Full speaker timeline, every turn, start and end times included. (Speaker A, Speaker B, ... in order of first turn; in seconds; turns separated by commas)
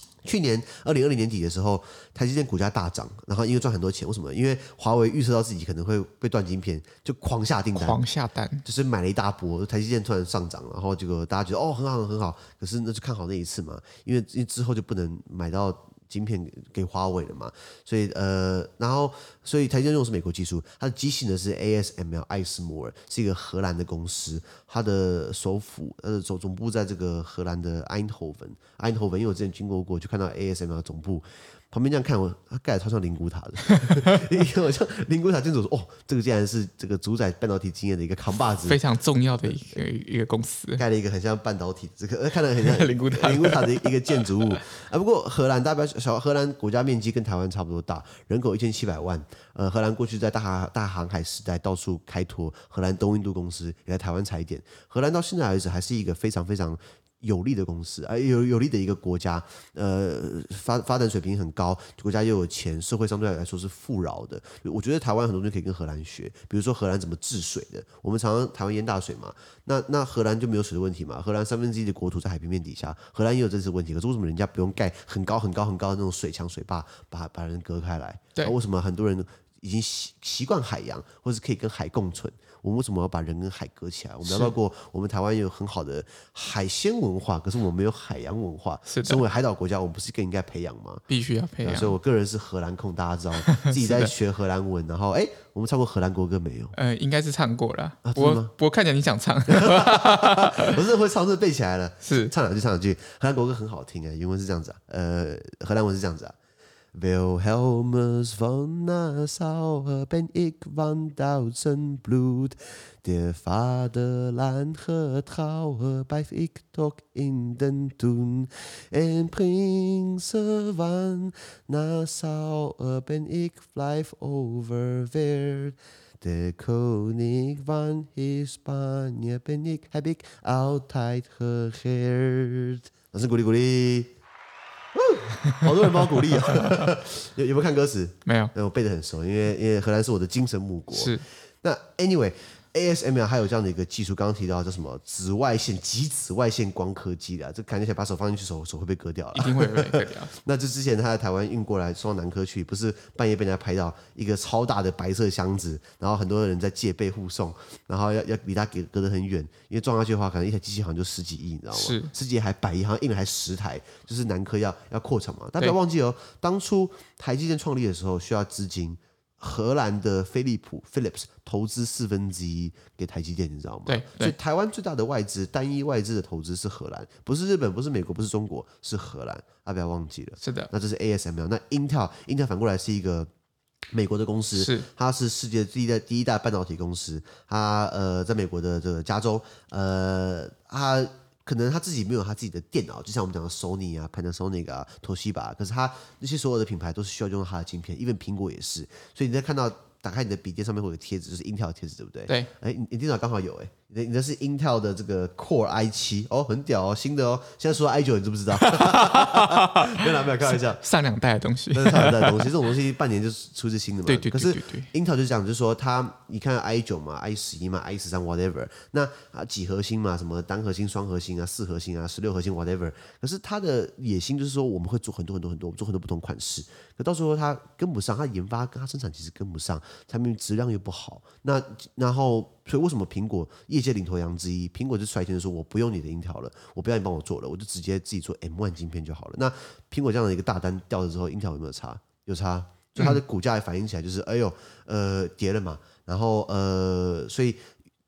Speaker A: 0.2-8.0, Speaker B: 7.8-8.6, Speaker A: 8.7-38.8, Speaker B: 33.8-34.2, Speaker B: 38.6-40.8, Speaker A: 40.8-91.0, Speaker B: 42.6-44.6, Speaker B: 84.3-84.5, Speaker B: 88.9-89.2, Speaker B: 91.1-92.0, Speaker A: 91.6-96.8, Speaker B: 93.4-94.1, Speaker B: 96.7-100.8, Speaker A: 98.0-98.5, Speaker A: 99.5-106.4, Speaker B: 102.0-102.3, Speaker A: 106.9-134.1, Speaker A: 134.9-183.3, Speaker B: 138.3-138.5, Speaker B: 140.9-141.2, Speaker B: 149.3-150.3, Speaker B: 161.7-162.1, Speaker B: 173.9-174.3, Speaker B: 180.4-180.7, Speaker A: 183.9-210.8, Speaker B: 184.6-184.9, Speaker B: 208.6-212.6, Speaker A: 211.7-247.7, Speaker B: 214.1-214.9